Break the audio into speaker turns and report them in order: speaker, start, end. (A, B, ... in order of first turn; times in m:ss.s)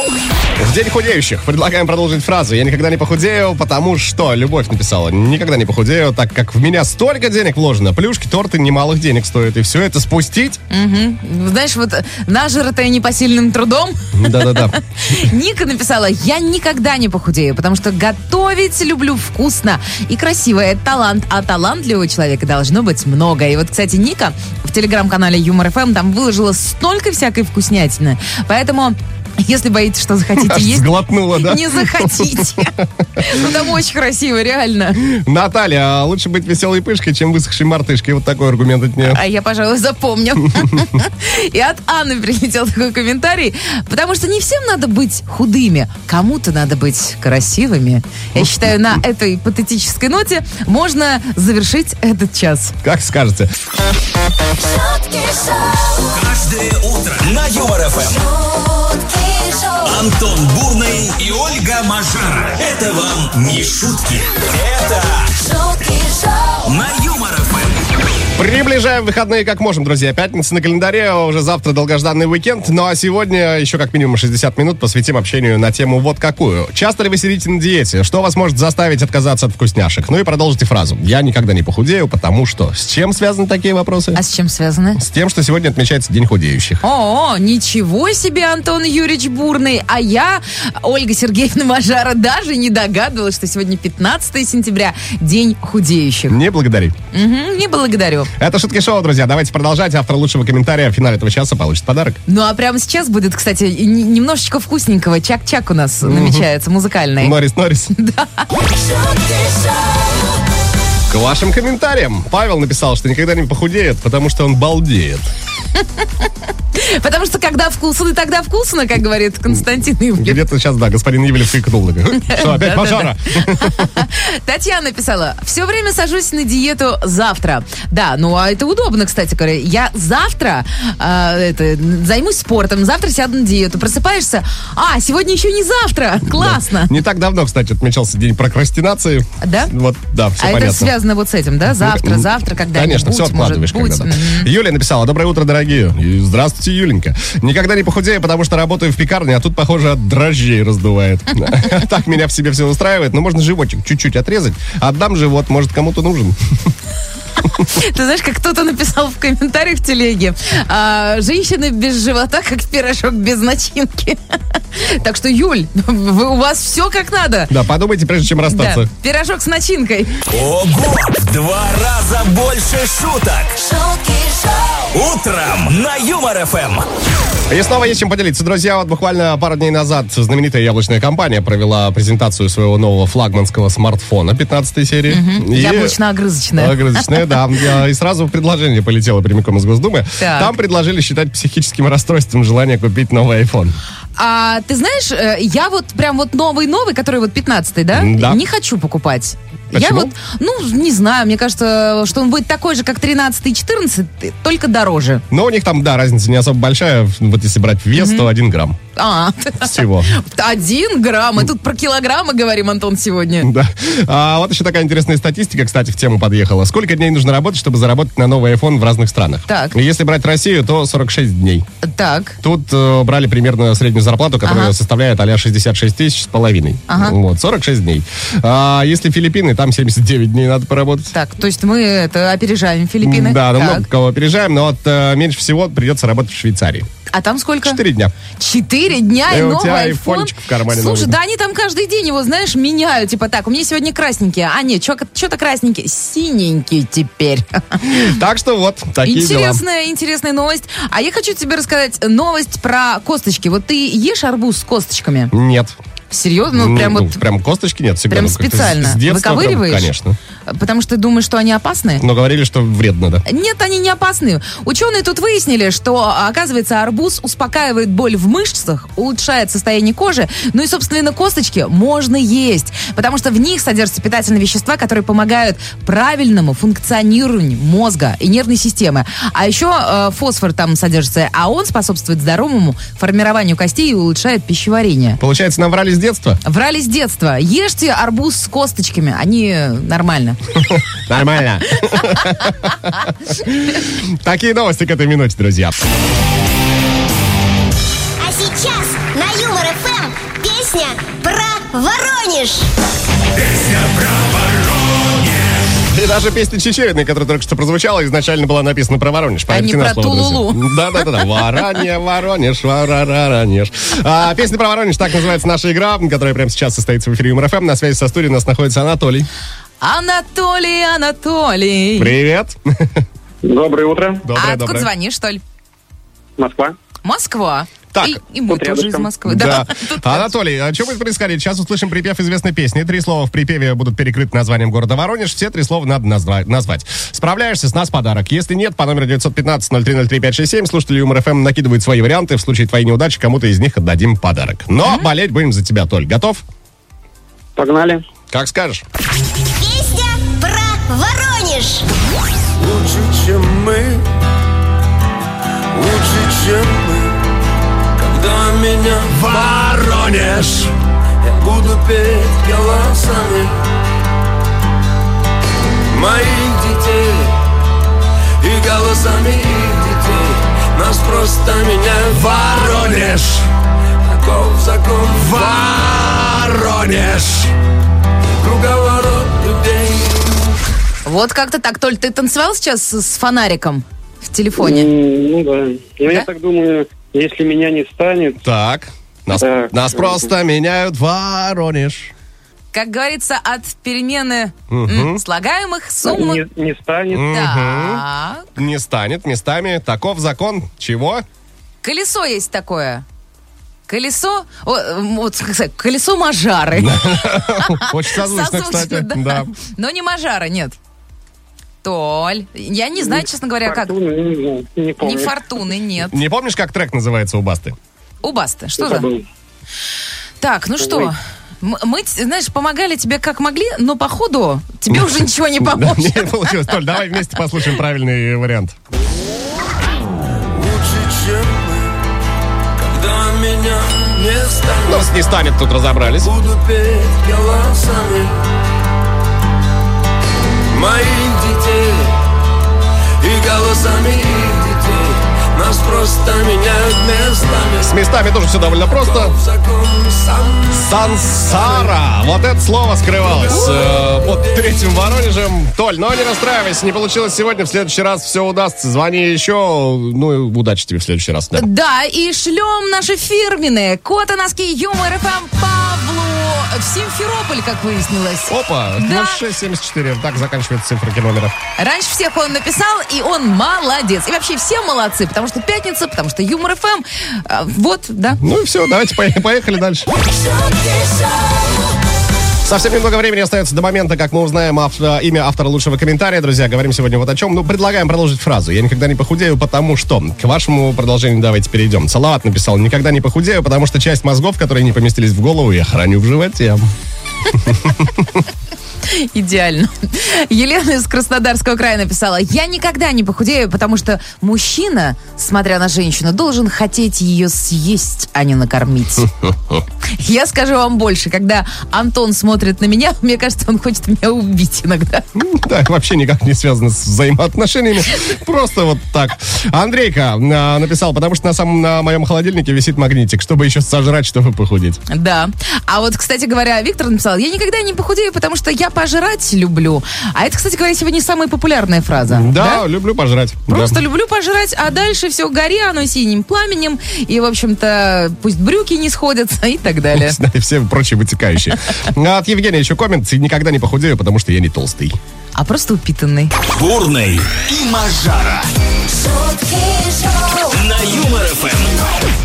0:00.6-0:10.6 A
0:10.7-0:35.0 B
0:14.1-0:15.2 A
0:30.4-0:33.5 A
0:35.0-0:39.2 A
0:39.0-0:52.8 B
0:40.5-0:40.9 A
0:48.3-0:48.9 A
0:52.8-0:53.5 A
0:56.0-0:58.3 C
0:59.8-1:05.3 C
1:06.6-1:07.8 C
1:08.4-1:24.2 A
1:24.1-1:25.0 B
1:25.0-1:26.8 A
1:26.8-1:36.4 B
1:36.3-1:37.0 A
1:37.1-1:38.3 B
1:38.4-1:42.2 A
1:42.3-1:47.4 B
1:46.0-1:46.4 A
1:47.2-1:47.9 A
1:47.9-1:48.5 B
1:51.1-1:55.3 A
1:55.8-2:00.4 B
2:00.2-2:03.9 A
2:02.1-2:16.9 B
2:16.2-2:20.9 A
2:19.4-2:19.7 B
2:20.4-2:24.5 B
2:21.7-2:36.4 A
2:37.4-2:47.5 B
2:47.5-2:48.9 A
2:48.5-2:50.2 B
2:50.3-2:53.8 C
2:54.8-2:56.8 C
2:57.5-3:06.0 A
3:05.1-3:07.4 B
3:06.6-3:13.8 A
3:10.2-3:10.5 B
3:14.2-3:25.2 B
3:17.9-3:18.4 A
3:19.7-3:20.1 A
3:25.3-3:28.8 A
3:27.9-3:28.3 B
3:28.9-3:33.5 B
3:29.6-3:30.1 A
3:33.4-3:41.6 A
3:39.5-3:39.8 B
3:41.8-3:42.4 B
3:42.4-3:51.1 A
3:44.4-3:44.7 B
3:46.9-3:47.2 B
3:51.1-3:53.8 B
3:53.0-3:56.9 A
3:57.1-3:57.8 B
3:57.6-3:58.1 A
3:58.4-4:07.9 B
3:59.3-4:01.2 A
4:07.8-4:09.6 A
4:09.0-4:15.3 B
4:15.3-4:15.8 A
4:16.1-4:17.2 B
4:16.5-4:20.2 A
4:18.1-4:19.9 B
4:20.5-4:22.0 B
4:22.0-4:23.2 A
4:23.2-4:45.2 B
4:45.2-4:46.4 A
4:46.4-4:50.4 B
4:50.6-4:55.7 A
4:51.9-4:52.9 B
4:58.2-5:02.7 D
5:03.4-5:05.6 C
5:05.9-5:19.3 A
5:09.5-5:11.2 B
5:19.8-5:22.1 B
5:22.0-5:23.0 A
5:23.4-5:24.2 E
5:24.2-5:24.9 A
5:24.4-5:25.4 B
5:26.4-5:26.7 E
5:27.0-5:30.3 B
5:27.9-5:28.2 A
5:28.5-5:29.1 E
5:29.2-5:46.4 A
5:47.6-5:48.0 E
5:48.3-5:48.8 A
5:49.6-5:51.8 D
5:52.6-5:54.0 F
5:55.7-5:57.2 F
5:57.9-6:03.6 F
6:05.9-6:07.4 F
6:08.4-6:13.5 F
6:14.0-6:17.5 F
6:18.4-6:20.4 F
6:21.0-6:24.9 B
6:24.6-6:28.4 E
6:28.4-6:32.1 A
6:29.4-6:30.3 E
6:32.7-6:36.4 B
6:34.7-6:35.2 A
6:36.0-6:37.4 E
6:37.1-6:38.0 A
6:37.3-6:38.5 B
6:38.6-6:41.2 A
6:41.8-6:43.0 B
6:43.9-6:50.8 B
6:46.8-6:49.5 A
6:51.8-6:53.9 B
6:53.0-6:55.4 E
6:55.0-6:56.2 B
6:56.1-6:57.8 A
6:58.2-6:59.1 B
6:58.8-6:59.2 E
7:00.4-7:06.7 B
7:00.8-7:01.1 E
7:04.9-7:08.7 A
7:10.5-7:12.0 F
7:12.8-7:15.1 F
7:14.8-7:16.3 A
7:16.2-7:18.4 F
7:20.7-7:22.2 F
7:23.2-7:28.0 F
7:27.8-7:29.3 A
7:29.0-7:31.9 F
7:30.7-7:41.7 A
7:33.2-7:34.7 F
7:33.5-7:33.8 B
7:41.5-7:49.4 B
7:48.5-7:51.5 A
7:51.8-7:58.4 B
7:58.4-8:00.1 A
8:02.6-8:16.8 A
8:17.6-8:18.2 A
8:19.0-8:29.3 B
8:30.0-8:35.2 B
8:35.3-8:45.0 A
8:45.1-8:52.8 B
8:52.3-8:54.0 A
8:53.7-9:00.4 B
9:00.1-9:05.2 A
9:05.6-9:06.5 B
9:06.7-9:08.7 C
9:10.4-9:12.0 C